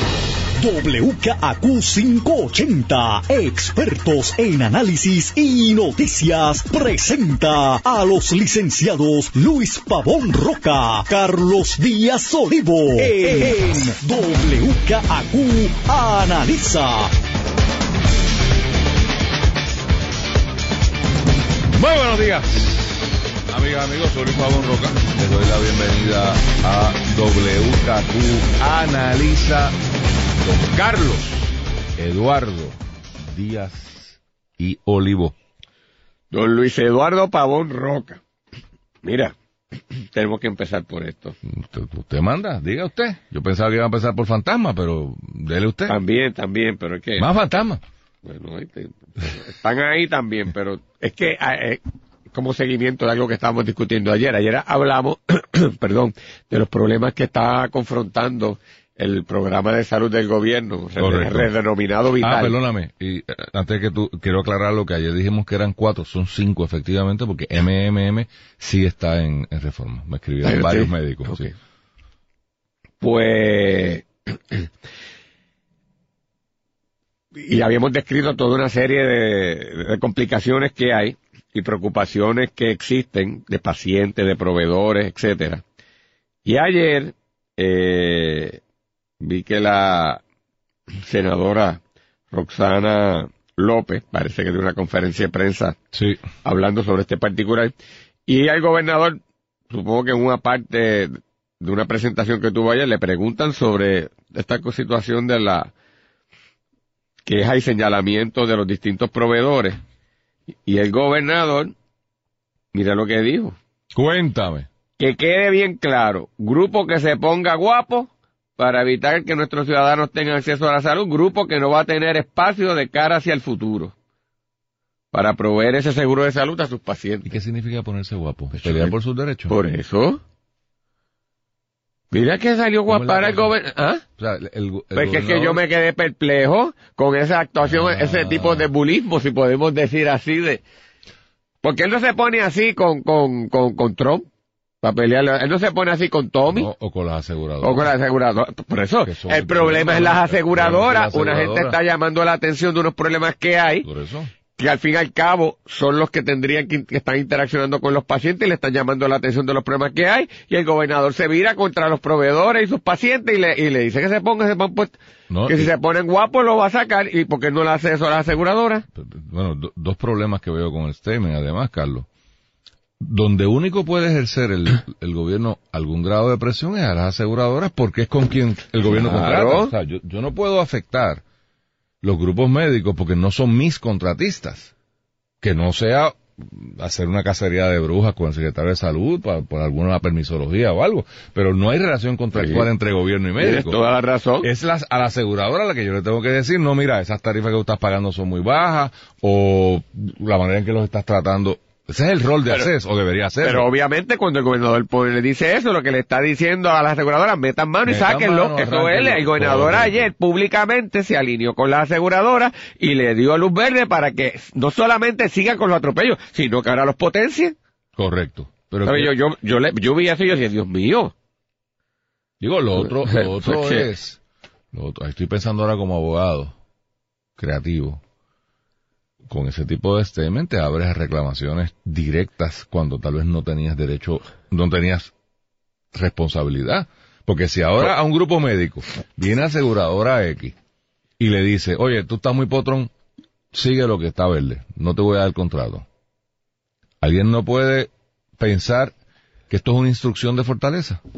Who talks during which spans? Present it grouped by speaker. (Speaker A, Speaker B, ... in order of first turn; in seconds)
Speaker A: 0.6-17.1
Speaker B: 21.7-29.8, 30.4-35.3, 41.5-46.0, 47.2-47.8, 61.0-61.5, 62.2-71.5, 95.9-96.2, 113.9-114.7, 127.2-129.6, 132.9-133.6, 134.2-135.6, 137.6-138.7, 146.5-147.9, 149.0-151.8, 153.8-154.3, 165.3-165.7, 168.9-172.1, 173.0-181.2, 182.0-184.7, 185.4-193.8, 194.4-203.7, 207.8-210.1, 218.0-219.1, 222.4-224.2, 224.7-226.5, 227.4-228.0, 229.3-235.1, 235.9-240.5, 241.2-242.9, 243.5-245.8, 247.0-248.9, 249.5-251.0
Speaker C: 36.3-38.2, 39.0-39.3, 39.9-41.4, 45.9-47.3, 48.2-62.5, 70.4-71.5, 73.0-74.7, 77.3-85.6, 86.4-88.6, 89.2-90.2, 90.9-91.8, 92.3-95.8, 96.4-97.7, 98.3-105.7, 107.2-109.8, 110.7-111.8, 112.7-113.6, 115.0-123.9, 125.1-127.3, 128.6-128.9, 129.5-130.2, 132.1-134.0, 134.9-140.6, 141.6-144.3, 144.8-146.7, 147.6-153.9, 154.6-168.8, 178.8-179.7, 192.3-192.7, 193.4-194.5, 203.4-217.6, 218.8-221.1, 222.8-223.9